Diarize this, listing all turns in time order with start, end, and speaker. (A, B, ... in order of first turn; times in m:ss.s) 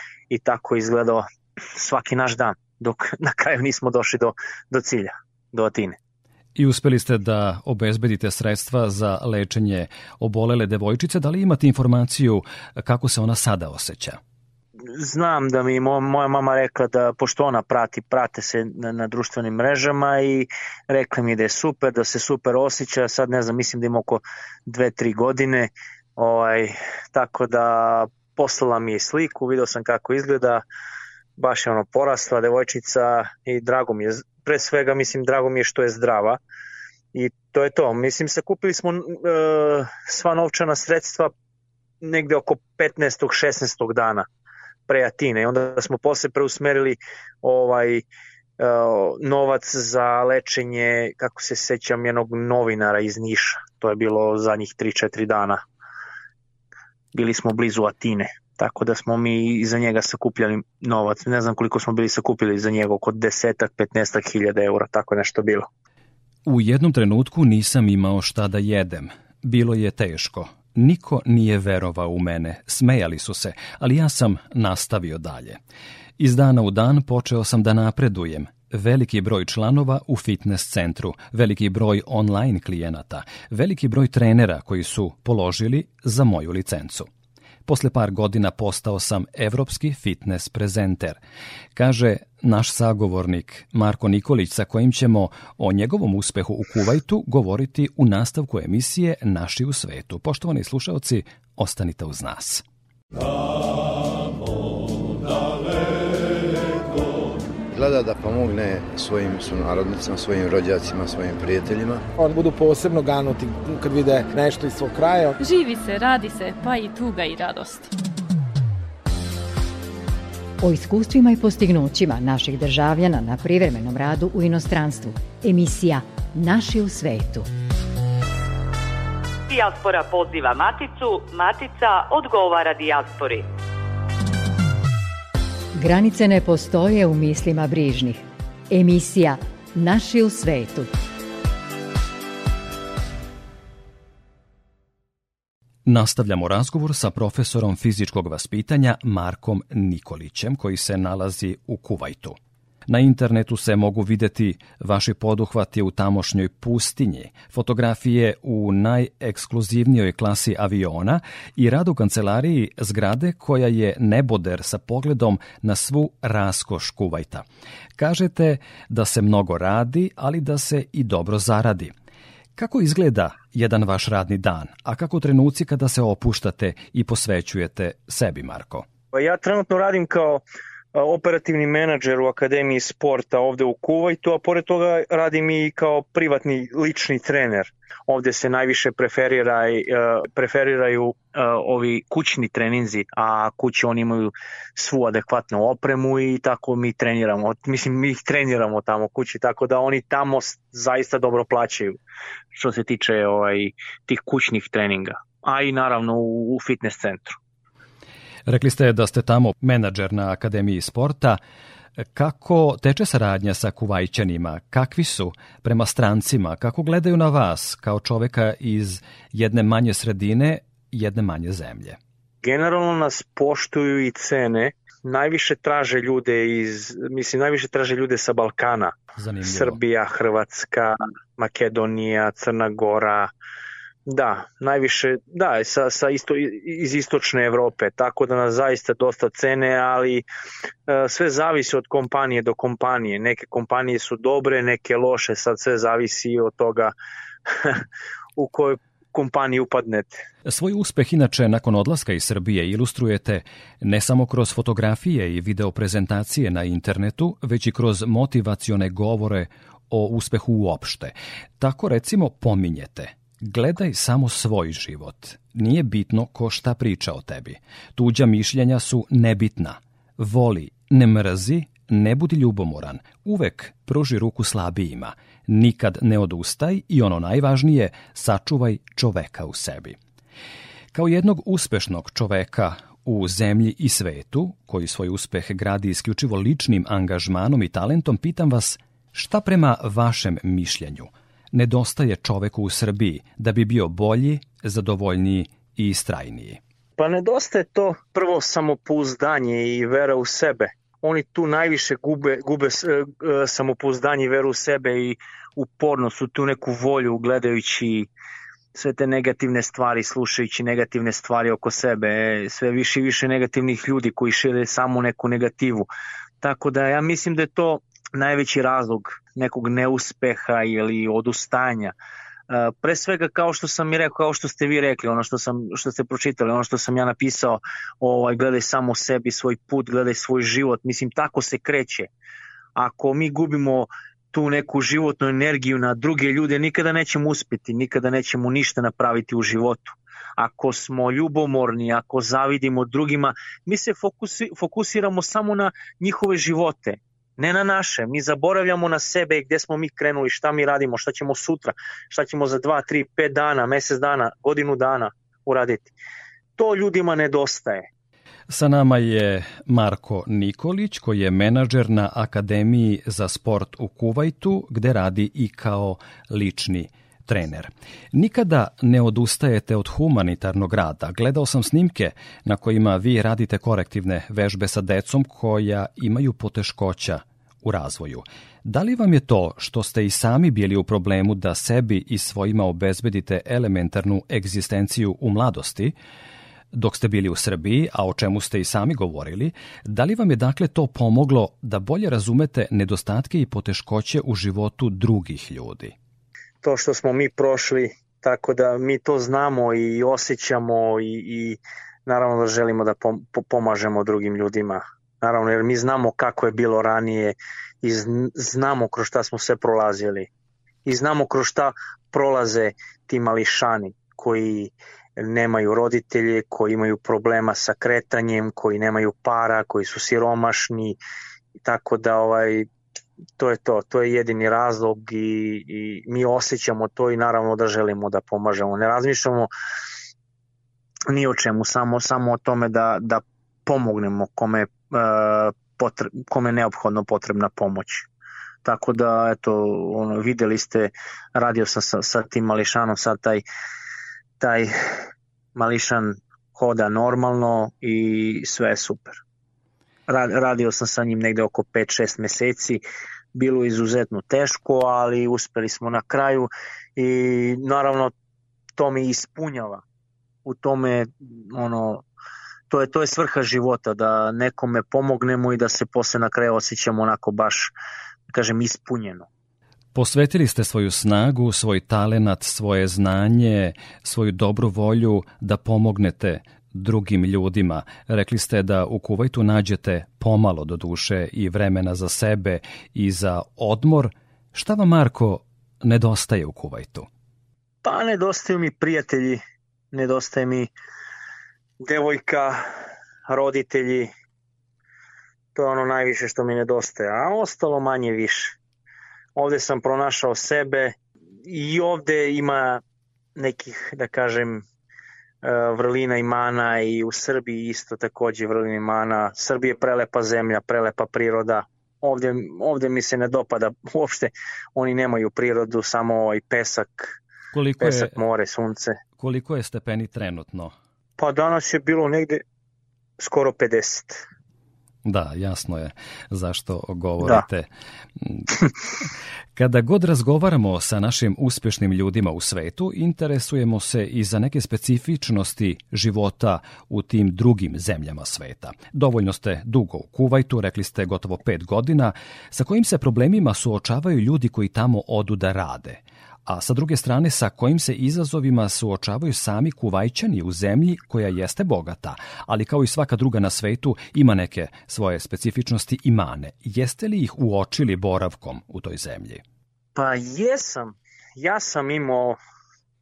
0:00.3-0:06.0 A
0:06.6-0:14.2 B
0:14.9-0:30.6 A
0:31.4-0:36.4 A
0:37.1-0:41.3 A
0:42.0-0:44.3 A
0:44.9-0:48.0 A
0:48.6-0:55.6 A
0:57.1-1:05.7 A
1:06.5-1:15.6 B
1:16.2-1:27.1 B
1:27.7-1:31.2 B
1:31.8-1:42.6 B
1:47.7-1:52.0 C
1:52.2-1:55.4 D
1:55.4-1:57.9 E
2:00.6-2:07.5 F
2:09.5-2:13.4 G
2:15.8-2:20.9 F
2:25.9-2:47.5 B
2:48.0-2:51.9 B
2:52.6-2:58.9 B
2:59.1-3:00.4 A
3:00.9-3:22.0 A
3:22.5-3:27.4 A
3:28.5-3:31.4 B
3:32.0-3:42.0 B
3:42.4-3:48.9 A
3:49.2-3:49.8 B
3:49.5-3:53.3 A
3:54.1-4:00.2 A
4:00.9-4:06.9 A
4:07.5-4:07.8 A
4:08.4-4:10.2 A
4:10.4-4:40.0 B
4:40.9-4:56.6 B
4:57.0-5:08.1 A
5:08.7-5:15.9 A
5:16.4-5:22.0 A
5:22.5-5:32.1 A
5:32.8-5:56.0 A
5:56.6-5:57.9 A
5:58.5-6:26.0 B
6:26.7-6:35.9 B
6:36.6-6:50.3 A
6:50.8-7:01.0 A
7:01.6-7:02.7 A
7:03.4-7:09.5 A
7:11.1-7:18.1 A
7:18.6-7:23.4 A
7:24.4-7:24.7 A
7:25.6-7:29.2 A
7:30.1-7:32.8 A
7:33.4-7:38.1 A
7:38.8-7:39.8 A
7:40.4-7:42.0 A
7:42.7-7:47.7 A
7:48.3-7:49.3 A
7:50.0-8:07.1 B
8:07.8-8:09.4 A
8:09.9-8:10.7 A
8:11.8-8:12.6 A
8:13.3-8:14.1 A
8:15.6-8:18.6 A
8:19.4-8:22.8 A
8:23.4-8:24.6 A
8:25.4-8:37.2 A
8:37.5-8:38.2 B
8:37.8-8:39.0 A
8:39.2-8:40.7 B
8:41.2-8:42.4 A
8:43.2-8:44.2 A
8:45.0-8:48.5 B
8:49.6-9:19.4 B
9:20.0-9:22.4 A